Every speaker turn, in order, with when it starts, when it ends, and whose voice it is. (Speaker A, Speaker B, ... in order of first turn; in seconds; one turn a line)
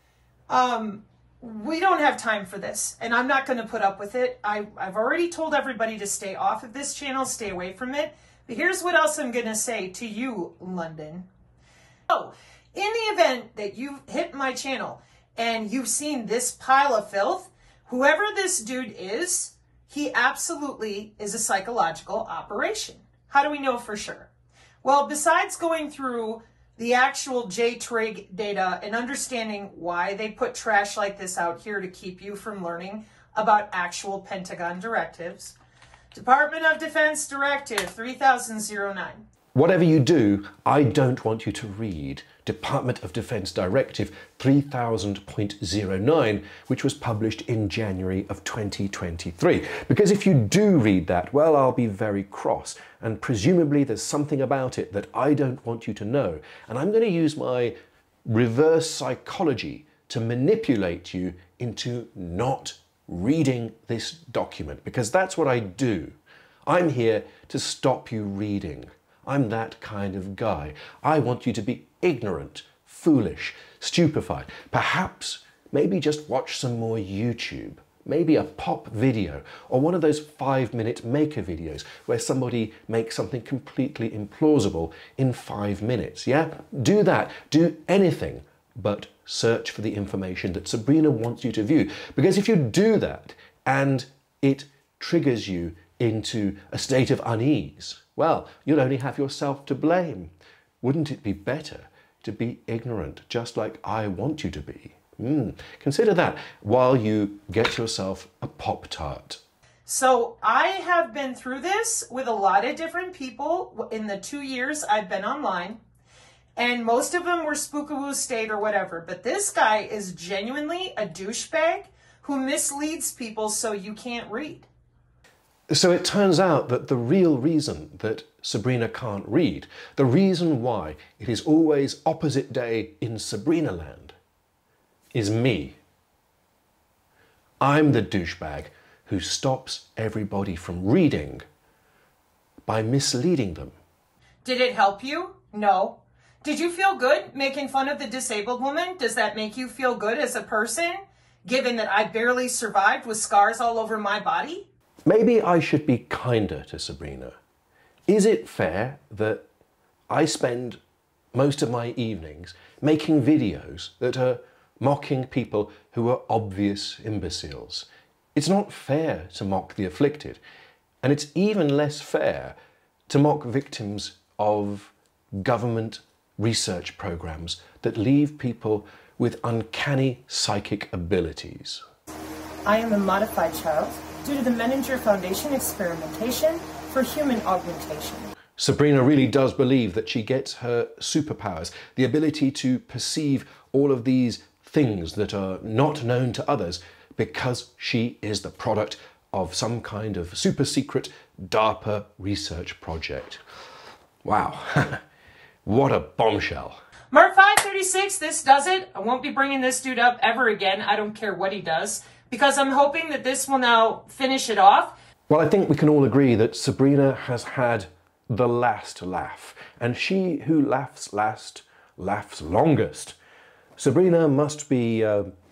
Speaker A: 0.5-11.3
Speaker A: 12.1-24.3
Speaker A: 24.8-35.5
Speaker A: 36.1-39.2
Speaker B: 39.5-57.7
Speaker B: 58.2-109.4
Speaker A: 109.8-115.8
Speaker A: 116.5-124.7
Speaker B: 125.7-134.2
Speaker B: 135.1-135.8
Speaker B: 137.6-141.4
Speaker B: 142.7-143.7
Speaker A: 144.4-154.7
Speaker B: 155.1-157.3
Speaker B: 158.1-159.4
Speaker B: 160.1-160.8
Speaker B: 161.3-170.4
Speaker B: 171.0-172.6
Speaker B: 173.1-181.8
Speaker A: 182.6-188.3
Speaker B: 188.6-203.4
Speaker B: 204.2-205.0
Speaker B: 205.6-206.8
Speaker A: 207.1-214.9
Speaker B: 215.3-223.2
Speaker B: 223.8-225.3